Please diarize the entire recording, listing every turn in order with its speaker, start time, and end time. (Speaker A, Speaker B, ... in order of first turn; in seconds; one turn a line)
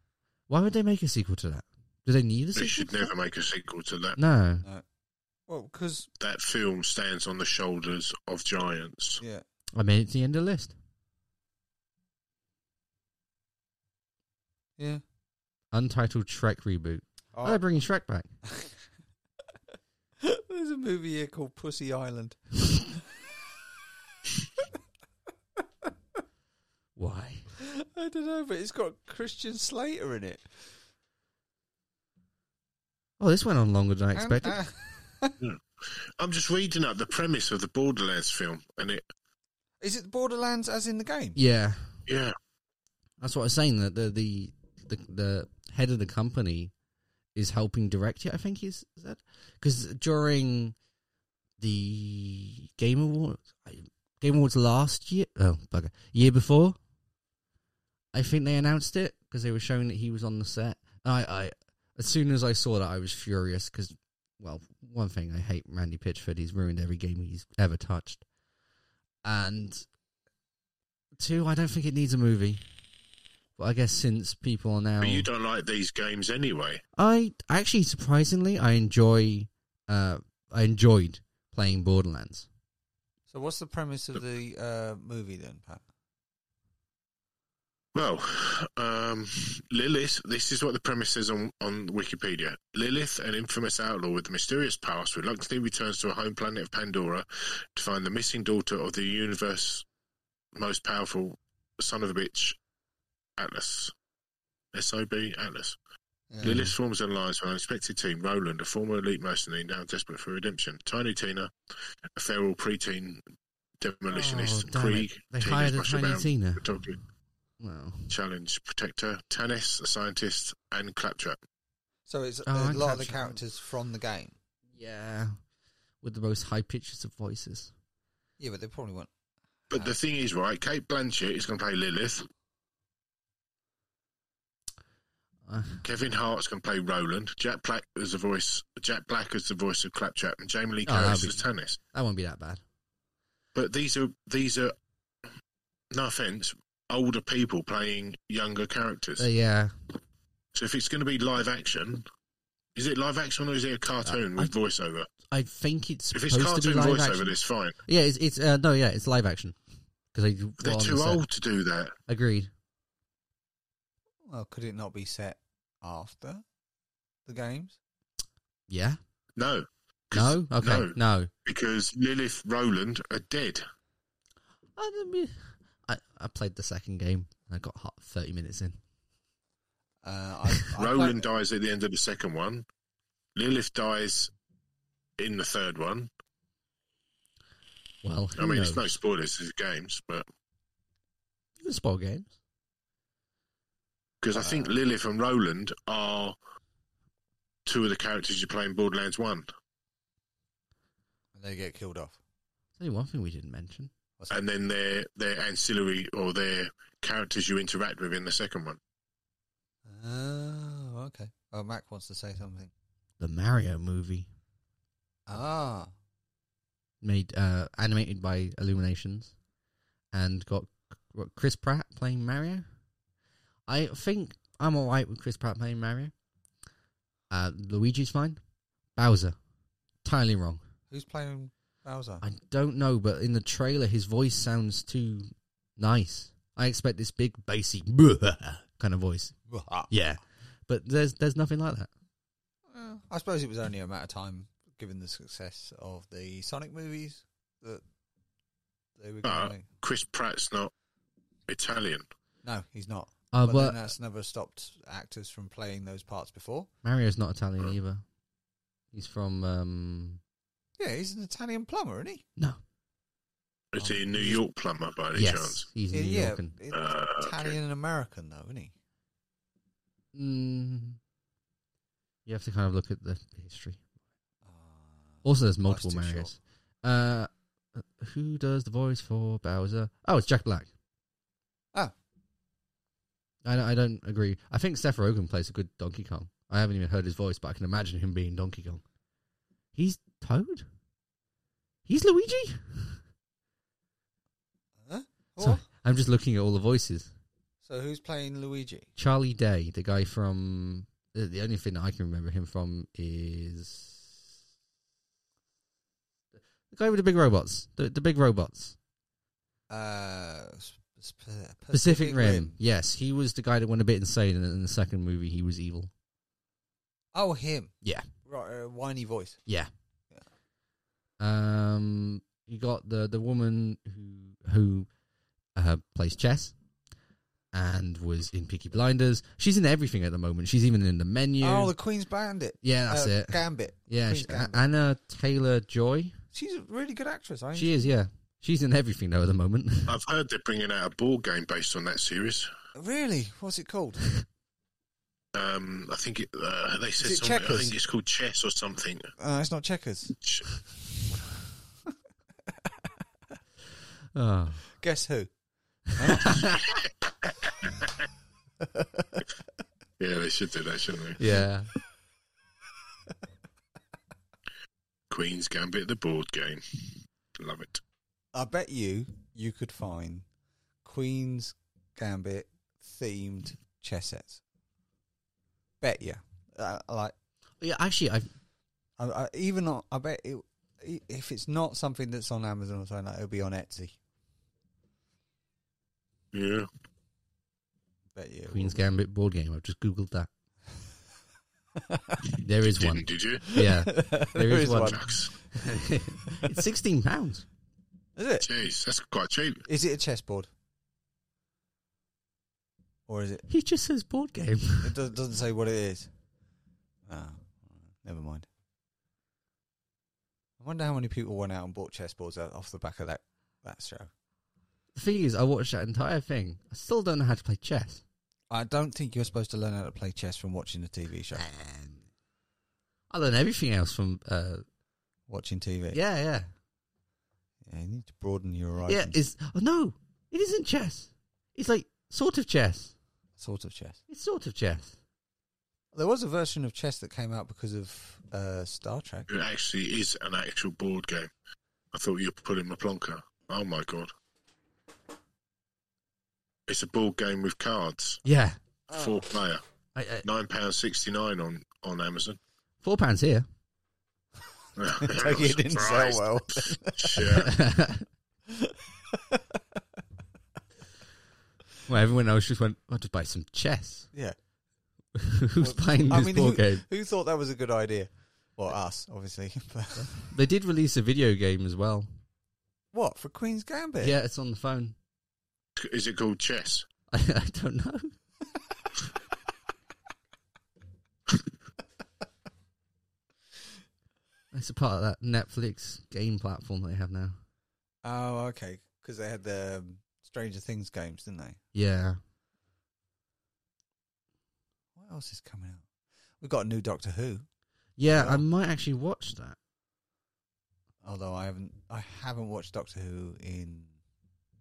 Speaker A: 0.5-3.1
Speaker B: 2.5-4.2
Speaker A: 4.2-4.6
Speaker C: 5.5-6.1
Speaker B: 6.2-9.2
Speaker A: 9.7-10.7
Speaker A: 15.7-18.3
Speaker C: 17.3-17.6
Speaker C: 20.2-23.0
Speaker A: 26.9-27.4
Speaker C: 27.6-30.5
Speaker A: 33.2-34.6
Speaker C: 34.1-35.4
Speaker B: 35.4-39.0
Speaker C: 39.8-41.4
Speaker A: 41.4-42.0
Speaker B: 42.1-42.3
Speaker A: 43.2-46.7
Speaker A: 47.3-50.8
Speaker A: 51.6-56.8
Speaker A: 58.1-68.2
Speaker A: 69.2-69.8
Speaker A: 71.2-72.6
Speaker A: 73.6-75.3
Speaker B: 75.0-76.8
Speaker A: 77.0-82.5
Speaker C: 83.3-85.8
Speaker B: 87.9-99.8
Speaker B: 100.5-102.6
Speaker B: 103.4-103.9
Speaker B: 104.7-105.8
Speaker C: 106.3-106.7
Speaker B: 106.4-111.5
Speaker A: 106.4-106.7
Speaker B: 112.2-113.2
Speaker B: 113.8-117.0
Speaker A: 114.1-116.7
Speaker A: 117.6-118.1
Speaker B: 118.1-121.4
Speaker C: 122.1-124.3
Speaker A: 122.5-123.4
Speaker A: 124.7-125.4
Speaker A: 126.0-127.7
Speaker C: 128.4-129.1
Speaker B: 129.7-132.3
Speaker A: 135.4-135.8
Speaker B: 135.8-141.8
Speaker A: 140.8-142.6
Speaker B: 143.5-144.7
Speaker B: 145.9-149.3
Speaker A: 149.2-149.9
Speaker B: 150.5-152.0
Speaker B: 152.8-155.1
Speaker A: 154.0-154.5
Speaker A: 155.3-157.3
Speaker B: 156.1-157.8
Speaker A: 157.8-159.6
Speaker A: 160.1-161.2
Speaker B: 160.6-161.9
Speaker A: 162.1-162.5
Speaker C: 164.3-166.4
Speaker C: 167.2-167.8
Speaker A: 168.7-169.0
Speaker B: 169.4-173.6
Speaker A: 170.1-171.3
Speaker A: 174.8-178.8
Speaker C: 180.0-181.2
Speaker B: 180.8-182.6
Speaker B: 183.3-184.3
Speaker B: 185.2-186.1
Speaker A: 188.0-188.8
Speaker B: 188.4-190.2
Speaker A: 191.6-192.3
Speaker B: 194.2-196.4
Speaker C: 194.3-194.7
Speaker B: 197.7-199.5
Speaker C: 201.3-202.2
Speaker A: 202.8-203.9
Speaker B: 204.3-208.8
Speaker C: 209.8-212.7
Speaker A: 213.2-214.3
Speaker C: 215.3-215.9
Speaker A: 217.0-219.3
Speaker A: 220.1-222.7
Speaker A: 223.7-226.1
Speaker A: 227.3-228.4
Speaker A: 228.9-229.3
Speaker A: 230.0-230.6
Speaker C: 230.9-232.2
Speaker A: 232.2-239.3
Speaker C: 239.5-239.9
Speaker A: 239.9-241.9
Speaker C: 242.7-247.8
Speaker C: 249.0-249.7
Speaker B: 249.2-250.7
Speaker B: 251.5-252.0
Speaker C: 252.4-256.7
Speaker A: 253.3-253.8
Speaker A: 256.8-258.0
Speaker A: 258.9-260.2
Speaker C: 260.8-262.2
Speaker B: 263.7-265.7
Speaker C: 263.8-264.4
Speaker A: 265.1-266.5
Speaker C: 265.9-268.7
Speaker B: 266.7-267.5
Speaker A: 270.1-271.0
Speaker A: 272.2-273.8
Speaker C: 274.4-276.3
Speaker A: 275.2-280.7
Speaker A: 283.4-288.8
Speaker A: 289.7-290.7
Speaker A: 291.9-293.0
Speaker C: 294.8-295.6
Speaker A: 295.4-297.1
Speaker C: 297.6-298.9
Speaker A: 299.0-304.3
Speaker A: 306.7-308.8
Speaker C: 309.7-312.6
Speaker A: 311.7-315.9
Speaker C: 317.1-317.7
Speaker A: 317.8-318.1
Speaker C: 318.2-319.4
Speaker A: 321.2-324.9
Speaker A: 325.5-326.5
Speaker A: 327.5-331.7
Speaker C: 331.4-334.6
Speaker A: 332.6-336.2
Speaker C: 336.3-337.9
Speaker A: 337.5-339.9
Speaker B: 339.9-342.5
Speaker C: 342.7-344.2
Speaker B: 345.3-349.1
Speaker C: 347.0-347.8
Speaker C: 349.2-350.1
Speaker C: 352.5-352.9
Speaker A: 354.1-354.6
Speaker C: 354.7-355.3
Speaker C: 355.9-356.5
Speaker A: 356.0-356.6
Speaker B: 357.6-357.9
Speaker C: 358.6-359.2
Speaker B: 360.0-361.2
Speaker A: 361.2-361.7
Speaker B: 365.1-367.8
Speaker C: 368.3-370.2
Speaker C: 370.8-374.4
Speaker C: 375.8-377.1
Speaker A: 377.6-378.3
Speaker C: 379.0-384.0
Speaker B: 386.3-386.7
Speaker C: 388.1-388.8
Speaker A: 388.5-390.3
Speaker C: 391.8-392.2
Speaker B: 392.4-393.5
Speaker A: 392.4-395.0
Speaker C: 393.4-395.1
Speaker B: 394.7-395.3
Speaker A: 395.5-397.4
Speaker C: 398.2-398.5
Speaker B: 398.4-399.6
Speaker C: 399.6-400.5
Speaker C: 403.1-403.4
Speaker A: 403.5-404.9
Speaker C: 404.8-406.1
Speaker C: 407.1-408.5
Speaker C: 410.6-414.1
Speaker A: 414.9-418.0
Speaker C: 418.5-421.5
Speaker A: 421.3-422.0
Speaker A: 423.1-424.6
Speaker C: 425.3-426.0
Speaker A: 425.9-426.5
Speaker C: 427.7-429.1
Speaker A: 428.9-432.9
Speaker C: 433.4-434.0
Speaker A: 434.1-434.9
Speaker C: 435.9-439.3
Speaker B: 439.3-441.3
Speaker B: 441.9-444.1
Speaker B: 446.7-448.2
Speaker A: 448.2-448.6
Speaker C: 448.9-449.2
Speaker B: 448.9-449.6
Speaker A: 449.9-450.2
Speaker B: 450.2-452.4
Speaker A: 452.8-453.5
Speaker B: 454.8-457.5
Speaker C: 454.9-457.3
Speaker A: 457.2-458.1
Speaker C: 458.5-459.6
Speaker A: 461.9-464.1
Speaker A: 465.1-466.8
Speaker C: 465.6-470.3
Speaker A: 470.0-472.1
Speaker C: 472.9-474.2
Speaker A: 474.0-474.9
Speaker B: 475.8-476.9
Speaker A: 477.1-478.1
Speaker A: 484.5-487.4
Speaker C: 488.0-491.6
Speaker A: 491.7-492.2
Speaker C: 494.9-495.9
Speaker C: 496.4-497.4
Speaker A: 498.0-499.6
Speaker C: 498.0-498.5
Speaker C: 501.0-504.0